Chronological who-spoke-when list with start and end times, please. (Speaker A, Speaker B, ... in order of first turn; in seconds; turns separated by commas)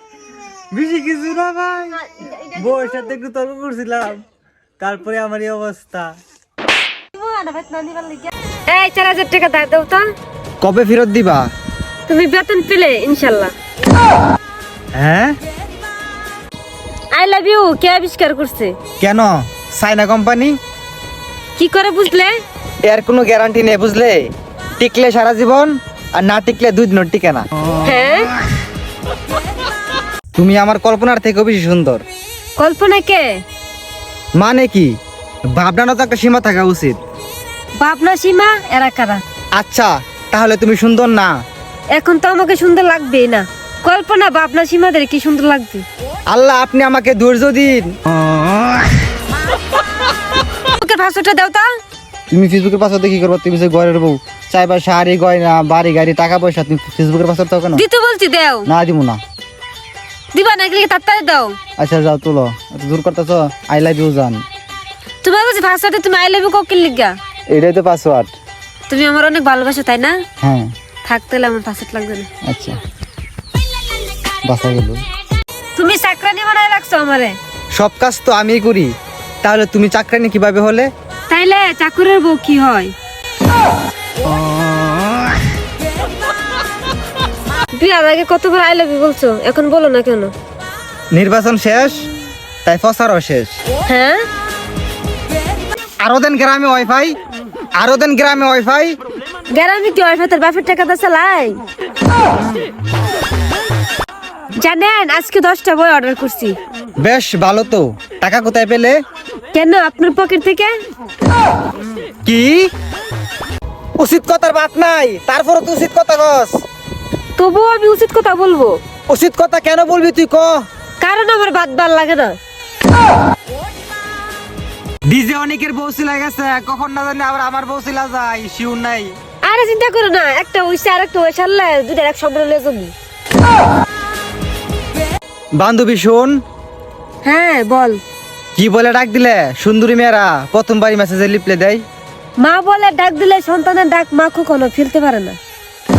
Speaker A: 0.7-2.0, Speaker B: 2.1-3.0, Speaker A: 2.5-4.2, Speaker A: 4.8-6.1, Speaker B: 7.1-10.0, Speaker A: 10.6-11.5, Speaker B: 12.1-13.5, Speaker A: 14.9-15.4, Speaker B: 17.1-18.7, Speaker A: 19.0-20.6, Speaker B: 21.6-22.3, Speaker A: 22.8-27.5, Speaker B: 27.8-28.3, Speaker A: 30.3-32.0, Speaker B: 32.6-33.3, Speaker A: 34.4-34.9, Speaker A: 35.5-37.0, Speaker B: 37.8-39.2, Speaker A: 39.5-41.3, Speaker B: 41.9-45.8, Speaker A: 46.3-48.0, Speaker B: 50.7-51.7, Speaker A: 52.3-57.8, Speaker B: 57.7-58.7, Speaker A: 58.7-59.2, Speaker B: 60.3-61.6, Speaker A: 61.8-64.4, Speaker B: 65.2-67.2, Speaker A: 67.5-68.3, Speaker B: 68.9-70.2, Speaker A: 70.4-70.7, Speaker B: 71.0-72.3, Speaker A: 72.4-72.8, Speaker A: 74.4-75.0, Speaker B: 75.8-77.4, Speaker A: 77.7-78.9, Speaker A: 79.4-80.9, Speaker B: 81.3-82.9, Speaker B: 87.7-90.3, Speaker A: 91.1-92.1, Speaker A: 92.6-93.6, Speaker B: 93.9-94.2, Speaker A: 96.0-97.2, Speaker A: 97.8-99.0, Speaker B: 99.5-101.6, Speaker B: 104.6-106.5, Speaker A: 107.0-109.0, Speaker B: 109.5-110.7, Speaker A: 112.2-112.7, Speaker A: 114.0-116.5, Speaker B: 117.4-118.8, Speaker A: 119.1-120.5, Speaker B: 121.0-122.3, Speaker A: 125.1-129.1, Speaker B: 129.4-132.9, Speaker A: 135.6-136.3, Speaker B: 137.2-138.0, Speaker A: 138.6-141.8, Speaker B: 142.4-145.4